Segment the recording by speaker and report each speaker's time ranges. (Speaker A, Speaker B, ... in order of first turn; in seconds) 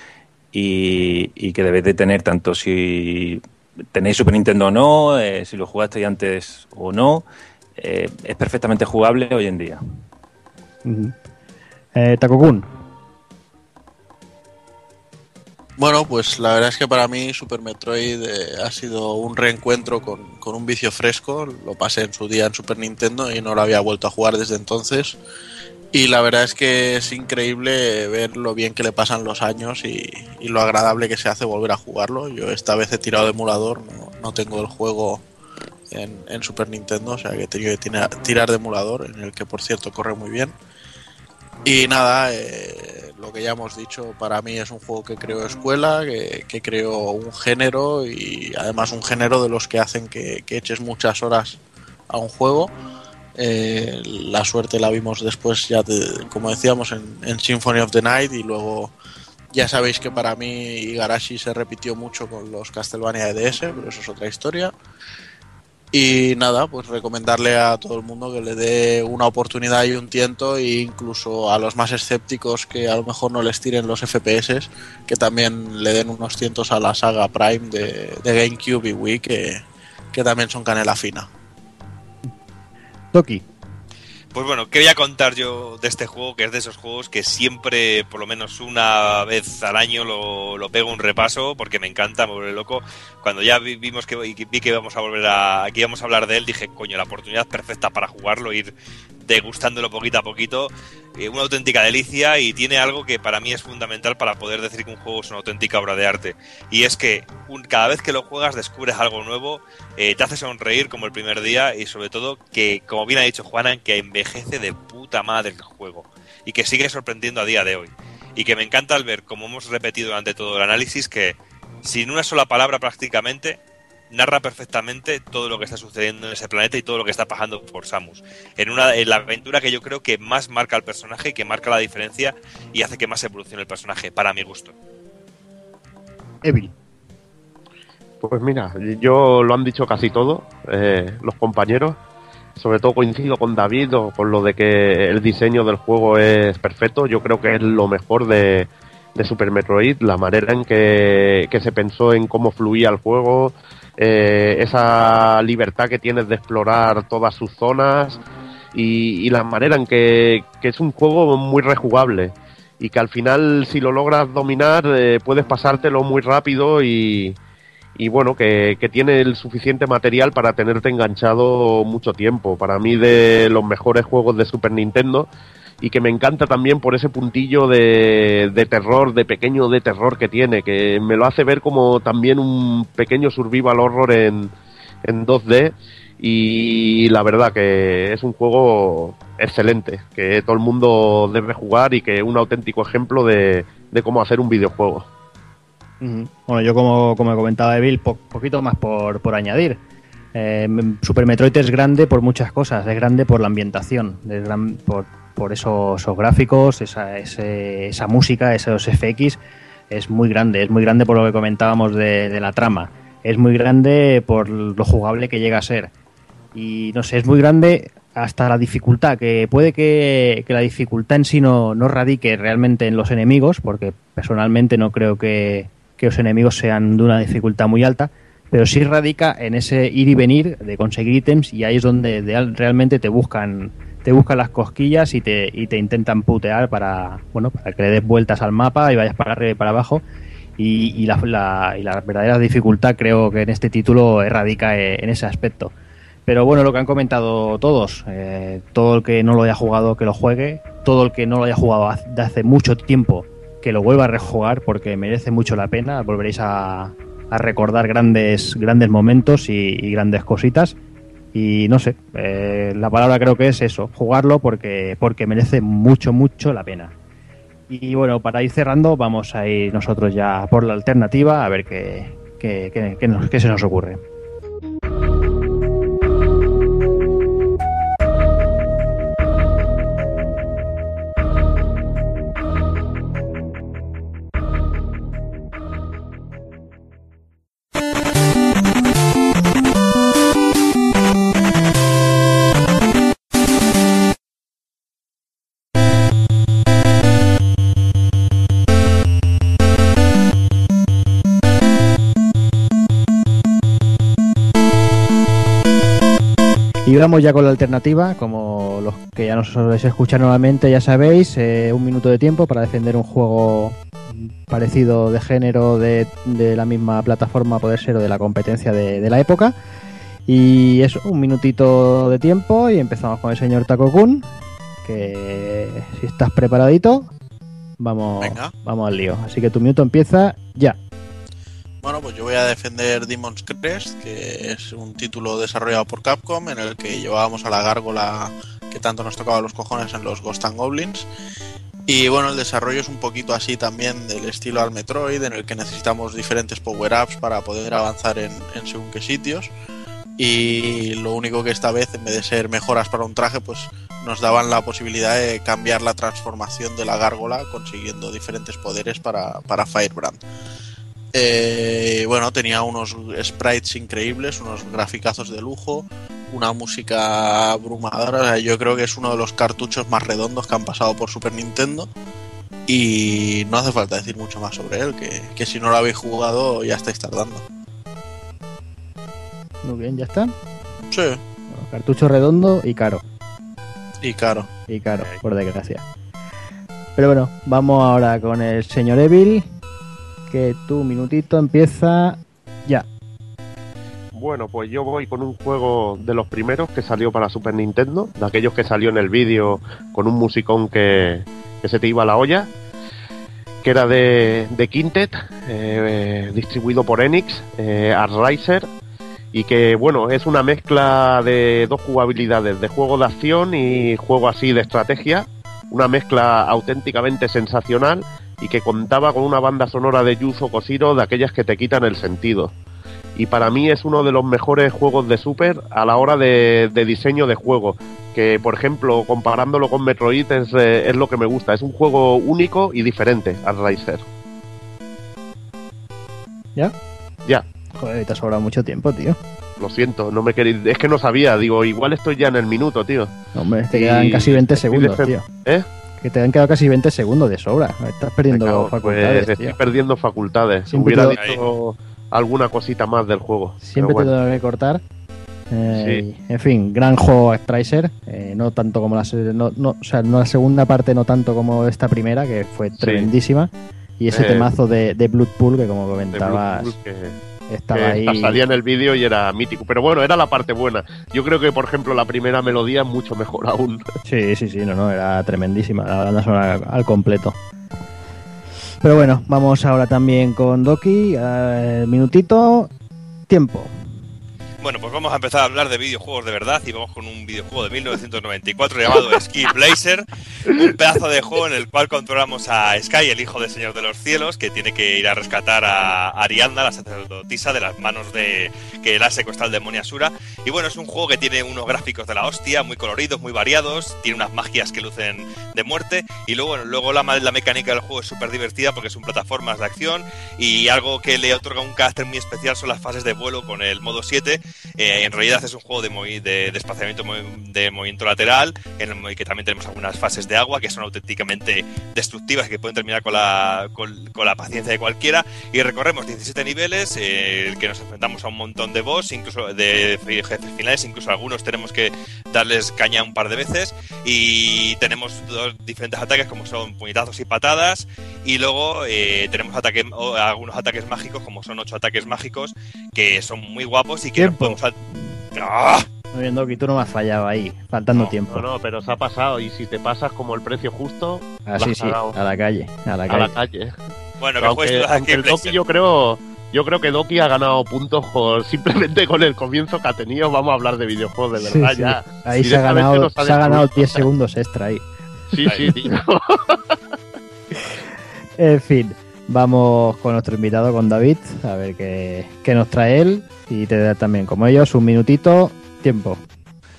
Speaker A: 0.5-7.2, 7.8-9.8
Speaker B: 10.8-11.1, 11.9-12.7, 83.1-83.4, 136.4-136.7, 196.0-199.8, 200.3-209.4, 209.9-215.9, 216.6-240.0, 240.6-245.7, 246.3-260.8, 261.3-266.9, 267.7-274.0, 306.9-319.6, 320.3-324.2, 324.8-327.1, 327.8-330.8, 379.6-380.3, 381.5-383.0, 384.7-385.8, 387.0-389.4, 390.3-392.9, 437.8-439.2, 443.4-445.2, 446.0-449.6, 450.7-451.2, 453.6-454.8, 455.5-466.7, 467.5-468.4, 474.1-477.4, 478.8-482.7, 483.3-483.7, 544.2-544.6, 546.1-548.5, 551.5-553.3, 561.4-564.9, 568.4-576.2
Speaker C: 15.8-25.2, 25.9-35.2, 35.9-40.5, 41.6-52.7, 53.4-58.9, 59.5-64.7, 65.9-81.3, 328.2-328.5, 331.8-341.1, 341.9-349.5, 350.2-360.2, 361.1-371.9, 372.7-377.4, 380.9-381.2, 384.0-384.5
Speaker D: 84.3-98.7, 99.2-123.6, 124.1-134.7, 451.1-451.5, 484.6-544.8, 545.3-545.9, 554.2-555.6, 565.4-565.7
Speaker E: 138.2-142.0, 142.6-158.2, 158.7-167.4, 168.0-175.3, 175.8-184.5, 185.1-195.1, 394.1-402.5, 403.6-408.7, 409.3-422.5, 423.2-434.0, 439.6-443.1, 443.7-445.6, 448.3-454.1, 455.7-456.0, 462.8-463.1, 464.1-464.5, 466.1-467.2, 467.7-473.9, 548.3-552.2, 553.1-553.7, 554.4-564.0, 565.3-566.8